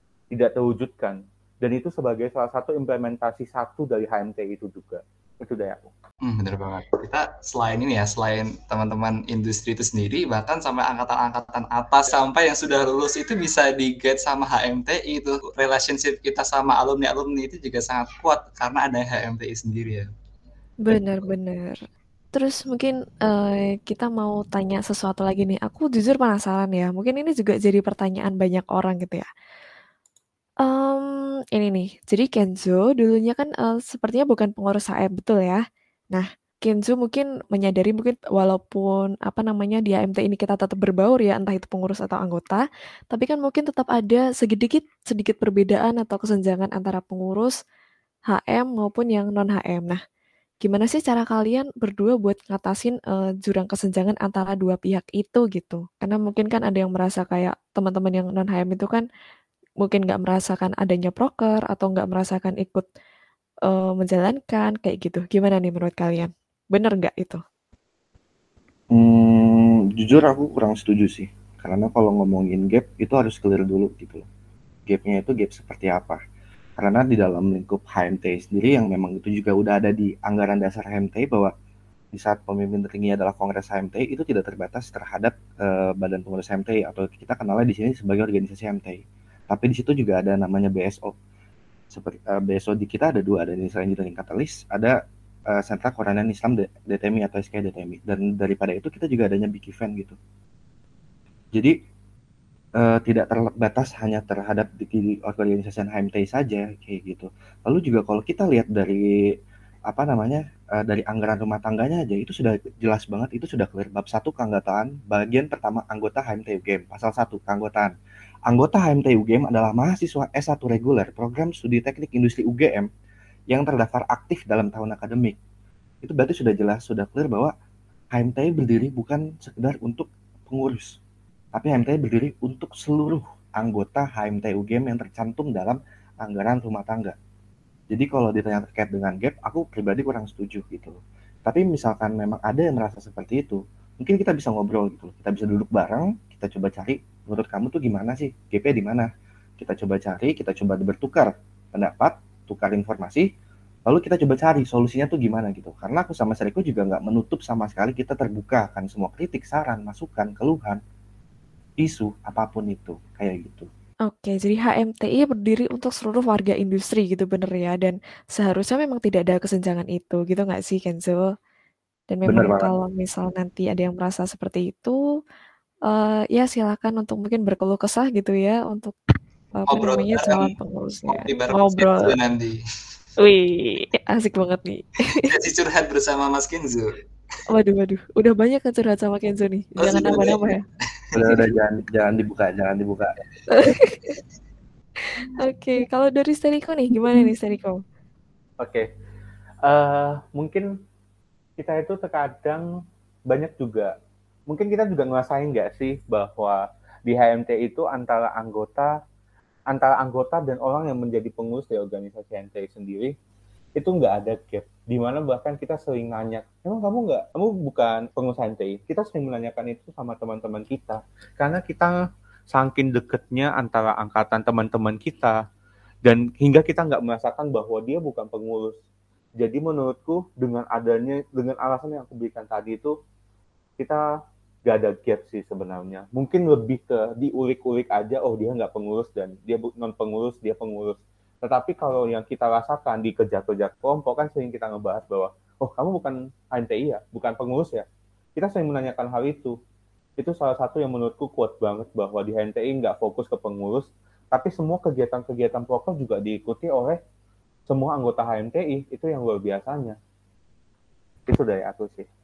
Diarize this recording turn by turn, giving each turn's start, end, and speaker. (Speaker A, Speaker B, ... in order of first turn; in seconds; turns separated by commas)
Speaker A: 0.3-5.9, Speaker B: 6.2-20.1, Speaker C: 20.9-21.7, Speaker C: 22.3-29.2, Speaker C: 30.6-35.6, Speaker C: 36.1-47.5, Speaker C: 48.3-50.0, Speaker C: 50.6-59.0, Speaker C: 59.8-62.9, Speaker C: 63.7-67.4, Speaker D: 68.9-74.2, Speaker D: 74.9-76.2, Speaker D: 76.8-81.5, Speaker D: 82.1-91.1, Speaker D: 91.9-94.9, Speaker D: 95.5-100.2, Speaker D: 102.8-109.0, Speaker D: 109.9-117.9, Speaker D: 118.5-122.9, Speaker D: 123.5-125.4, Speaker D: 126.0-127.5, Speaker D: 128.1-131.0, Speaker D: 131.5-137.1, Speaker D: 137.9-149.1, Speaker D: 149.6-153.3, Speaker D: 153.9-160.8, Speaker D: 161.8-163.7, Speaker C: 164.1-171.2, Speaker C: 172.1-175.0, Speaker D: 172.2-172.7, Speaker C: 175.9-178.9, Speaker C: 179.6-182.2, Speaker B: 179.7-180.5, Speaker B: 181.1-182.6, Speaker C: 183.2-185.3, Speaker B: 185.2-186.9, Speaker C: 187.5-190.6, Speaker B: 189.8-190.4, Speaker D: 191.1-193.1, Speaker C: 193.5-194.1, Speaker C: 195.2-197.8, Speaker A: 198.6-198.9, Speaker A: 199.6-200.7, Speaker A: 201.6-202.6, Speaker A: 203.3-203.9, Speaker A: 204.5-208.9, Speaker A: 209.7-213.1, Speaker A: 213.8-221.9, Speaker A: 222.5-225.4, Speaker A: 226.0-228.7, Speaker A: 229.4-232.9, Speaker A: 234.7-247.8, Speaker A: 248.4-249.6, Speaker A: 250.2-257.0, Speaker A: 257.7-260.0, Speaker A: 261.3-262.1